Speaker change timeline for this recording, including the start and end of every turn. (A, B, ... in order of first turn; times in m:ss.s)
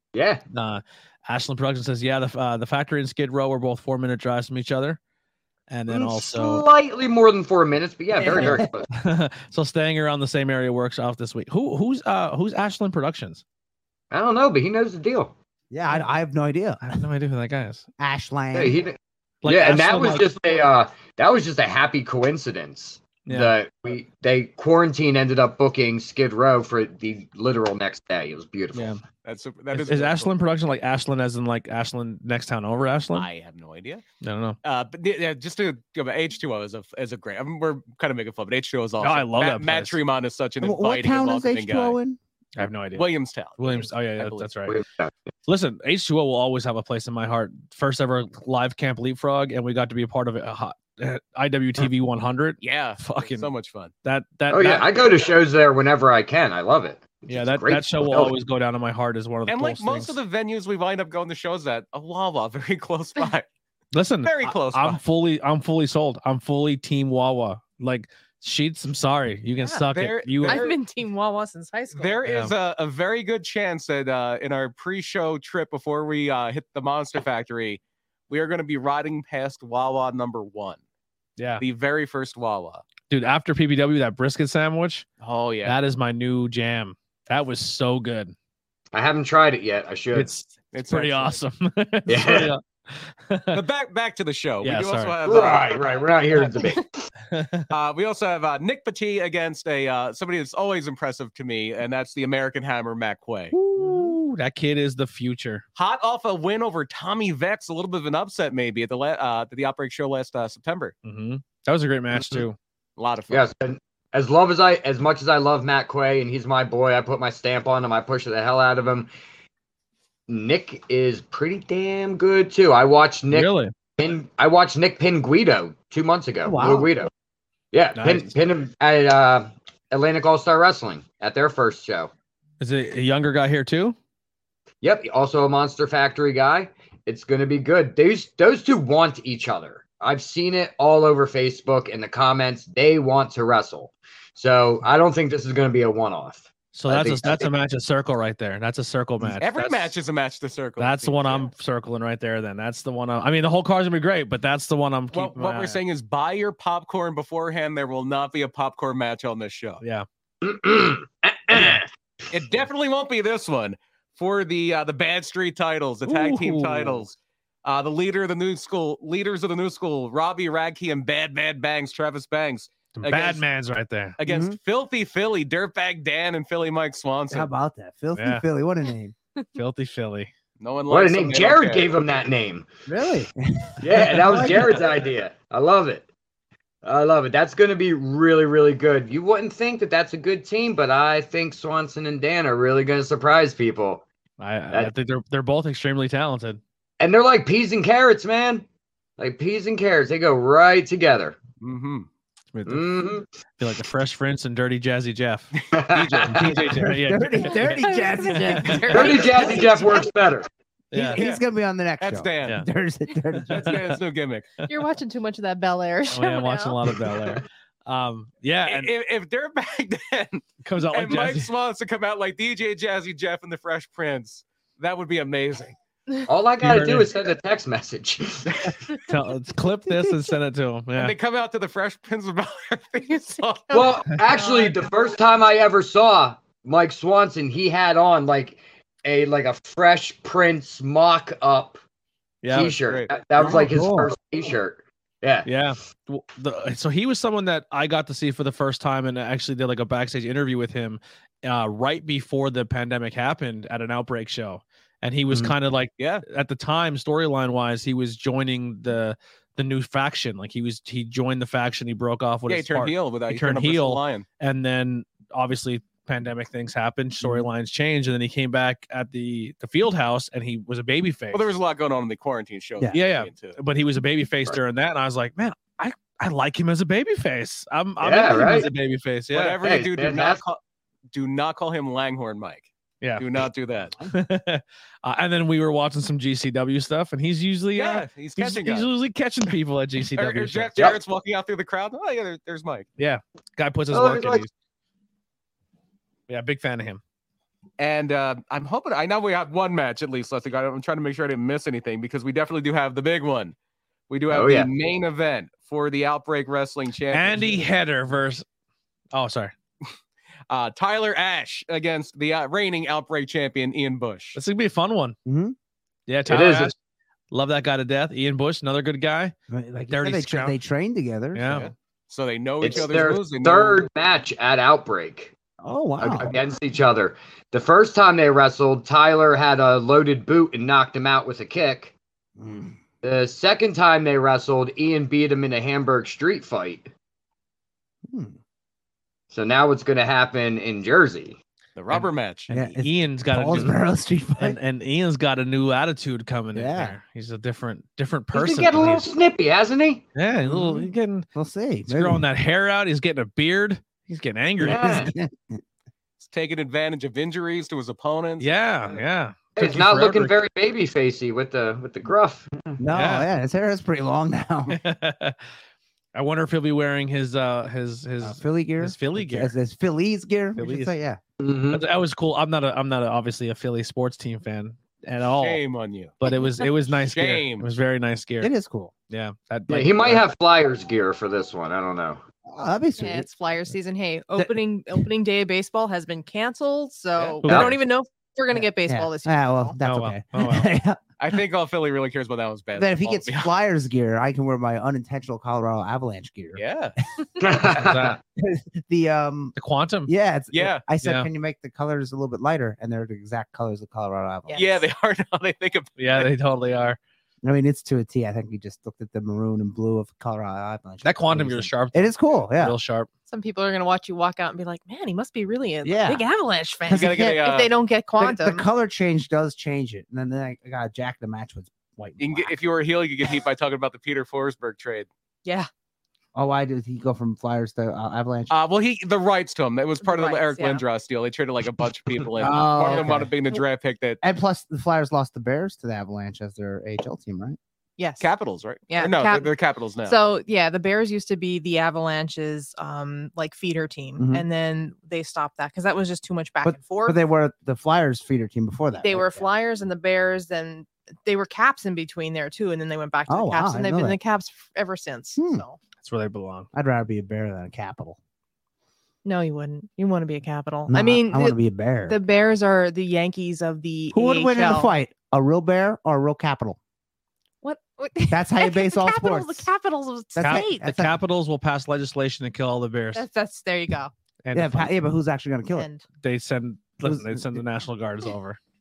0:00.1-0:00.4 A
0:00.5-0:05.0 B
0:05.7-0:06.6 B
0:05.9-0:08.9 A
0:08.1-0:08.7 C
0:08.4-0:13.4 B
0:14.1-0:15.3 A
0:15.7-0:17.0 C
0:16.9-0:17.8 B
0:18.0-0:18.8 C
0:18.5-0:29.0 A
0:19.4-0:20.3 B
0:23.3-0:23.5 B
0:28.7-0:29.0 B
0:29.2-0:30.3 D
0:29.7-0:33.3 B
0:33.2-0:34.0 D
0:34.2-0:34.6 B
0:34.6-0:42.0 D
0:39.0-0:40.0 B
0:40.6-0:42.2 C
0:42.6-0:43.1 B
0:42.9-0:44.5 D
0:43.6-0:44.8 B
0:44.7-0:45.1 A
0:45.5-0:53.5 B
0:52.6-0:53.9 D
0:54.0-0:54.9 B
0:54.5-0:58.4 A
0:57.3-1:00.2 B
0:59.5-1:03.5 D
1:03.9-1:10.7 B
1:04.2-1:05.0 D
1:09.9-1:10.8 D
1:10.4-1:12.2 E
1:11.9-1:20.8 D
1:12.3-1:12.5 B
1:21.4-1:21.6 B
1:21.6-1:22.8 D
1:23.1-1:25.1 B
1:25.2-1:25.8 D
1:25.6-1:28.3 B
1:28.9-1:30.3 A
1:30.1-1:33.6 B
1:30.7-1:31.4 D
1:32.1-1:32.5 A
1:33.5-1:35.8 D
1:34.6-1:35.2 B
1:35.3-1:37.1 A
1:37.3-1:37.7 B
1:37.7-1:43.6 D
1:43.5-1:45.6 B
1:45.8-1:50.9 D
1:51.0-1:52.6 B
1:52.1-1:52.4 A
1:53.0-1:53.5 D
1:53.3-1:59.1 A
2:00.3-2:07.1 A
2:03.3-2:03.7 B
2:06.4-2:06.9 C
2:07.7-2:12.1 A
2:08.0-2:08.3 B
2:12.6-2:14.0 B
2:14.8-2:27.5 A
2:26.7-2:29.9 B
2:29.4-2:31.5 D
2:30.8-2:35.8 B
2:35.1-2:39.8 D
2:40.4-2:41.9 A
2:42.3-2:53.4 D
2:46.1-2:47.0 B
2:53.0-2:54.2 B
2:54.2-2:57.5 D
2:54.2-2:54.6 C
2:57.3-2:59.2 C
2:58.2-2:58.4 B
2:59.6-3:00.3 B
3:00.6-3:01.9 D
3:00.9-3:02.7 A
3:02.9-3:04.8 C
3:03.8-3:06.1 A
3:04.2-3:04.7 B
3:06.8-3:14.0 A
3:14.4-3:16.6 B
3:17.0-3:18.7 A
3:19.2-3:21.4 A
3:21.6-3:22.1 D
3:22.5-3:22.9 B
3:22.7-3:23.3 A
3:23.6-3:25.5 B
3:25.6-3:26.8 D
3:25.7-3:26.5 A
3:26.2-3:29.1 B
3:26.8-3:29.6 C
3:27.6-3:30.0 E
3:28.9-3:30.5 A
3:30.9-3:31.2 B
3:30.9-3:33.8 C
3:31.2-3:31.4 D
3:32.0-3:32.6 D
3:33.5-3:34.5 D
3:34.6-3:37.0 E
3:36.1-3:38.9 B
3:38.6-3:45.8 D
3:40.6-3:41.5 B
3:46.3-3:49.0 A
3:46.6-3:47.1 B
3:49.1-3:51.1 B
3:51.0-3:54.0 D
3:53.7-4:01.8 A
3:54.2-3:54.8 E
4:02.4-4:02.8 B
4:02.5-4:05.5 A
4:02.8-4:03.1 D
4:03.4-4:04.1 C
4:05.4-4:31.5 B
4:16.0-4:16.2 D
4:22.5-4:24.3 D
4:31.3-4:33.6 D
4:32.9-4:39.6 B
4:38.0-4:38.7 A
4:39.3-4:40.6 D
4:39.6-4:40.4 A
4:41.1-4:44.0 D
4:43.0-4:43.4 B
4:44.1-4:50.8 B
4:47.7-4:48.9 D
4:50.1-4:52.9 D
4:53.0-4:54.5 B
4:53.9-4:54.5 A
4:56.3-4:57.0 B
4:57.8-5:03.6 D
5:04.1-5:07.7 D
5:04.3-5:04.7 A
5:07.1-5:08.4 B
5:09.1-5:09.5 B
5:10.5-5:14.4 D
5:14.4-5:15.2 B
5:15.2-5:15.6 C
5:16.1-5:16.8 B
5:16.3-5:16.7 A
5:17.3-5:19.4 B
5:19.5-5:21.5 C
5:19.9-5:20.6 B
5:21.3-5:21.7 B
5:21.5-5:23.9 D
5:22.6-5:25.3 A
5:25.6-5:26.3 C
5:26.0-5:32.0 A
5:32.4-5:32.8 C
5:33.0-5:36.9 A
5:38.1-5:38.4 C
5:39.3-5:41.4 A
5:41.8-5:42.7 D
5:42.5-5:44.6 C
5:42.8-5:43.8 B
5:44.4-5:49.1 B
5:46.5-5:47.0 C
5:48.3-5:50.0 A
5:50.2-5:51.3 B
5:50.5-5:52.2 C
5:51.9-5:55.0 B
5:54.6-5:55.6 C
5:54.6-5:55.1 A
5:56.2-5:59.0 D
5:58.4-6:00.3 B
5:59.6-6:02.8 A
6:02.8-6:04.8 C
6:02.9-6:03.3 B
6:04.7-6:05.4 B
6:06.1-6:09.6 B
6:08.2-6:11.2 C
6:10.6-6:10.9 B
6:11.4-6:11.8 A
6:11.7-6:15.6 B
6:15.4-6:16.2 D
6:16.2-6:18.5 B
6:16.2-6:16.5 E
6:16.8-6:17.7 D
6:18.4-6:18.9 C
6:19.1-6:20.2 B
6:19.7-6:22.2 A
6:22.5-6:23.3 C
6:23.0-6:29.8 E
6:27.4-6:27.8 B
6:27.5-6:27.7 A
6:28.5-6:31.0 C
6:29.8-6:30.7 B
6:31.2-6:33.5 D
6:32.8-6:36.6 C
6:36.6-6:37.0 D
6:37.4-6:38.2 A
6:37.6-6:38.2 B
6:37.9-6:39.6 C
6:39.6-6:40.1 B
6:40.1-6:44.6 C
6:40.5-6:40.8 D
6:41.0-6:41.3 B
6:44.5-6:44.8 E
6:44.5-6:46.3 D
6:46.0-6:47.0 B
6:47.4-6:52.8 C
6:51.0-6:53.1 B
6:53.3-6:58.6 E
6:55.8-6:56.3 C
6:56.9-6:57.4 C
6:56.9-6:57.7 D
6:58.2-7:02.7 C
7:02.2-7:05.1 D
7:06.4-7:08.5 C
7:08.5-7:14.2 D
7:10.0-7:10.8 E
7:12.4-7:13.3 C
7:14.2-7:17.6 C
7:18.0-7:18.3 E
7:18.2-7:20.2 D
7:18.9-7:19.5 E
7:20.0-7:27.2 E
7:24.2-7:24.4 C
7:26.6-7:29.5 C
7:29.0-7:35.8 E
7:33.3-7:34.2 C
7:35.4-7:35.6 C
7:36.0-7:36.7 B
7:36.7-7:38.2 C
7:39.2-7:44.9 E
7:40.9-7:42.2 C
7:44.1-7:46.8 C
7:47.6-7:50.9 E
7:48.3-7:49.7 C
7:50.4-7:51.2 C
7:50.4-7:53.3 B
7:53.1-7:54.1 E
7:54.4-7:54.9 B
7:54.5-7:55.9 C
7:55.7-7:56.0 E
7:56.2-7:58.6 B
7:57.0-7:57.6 C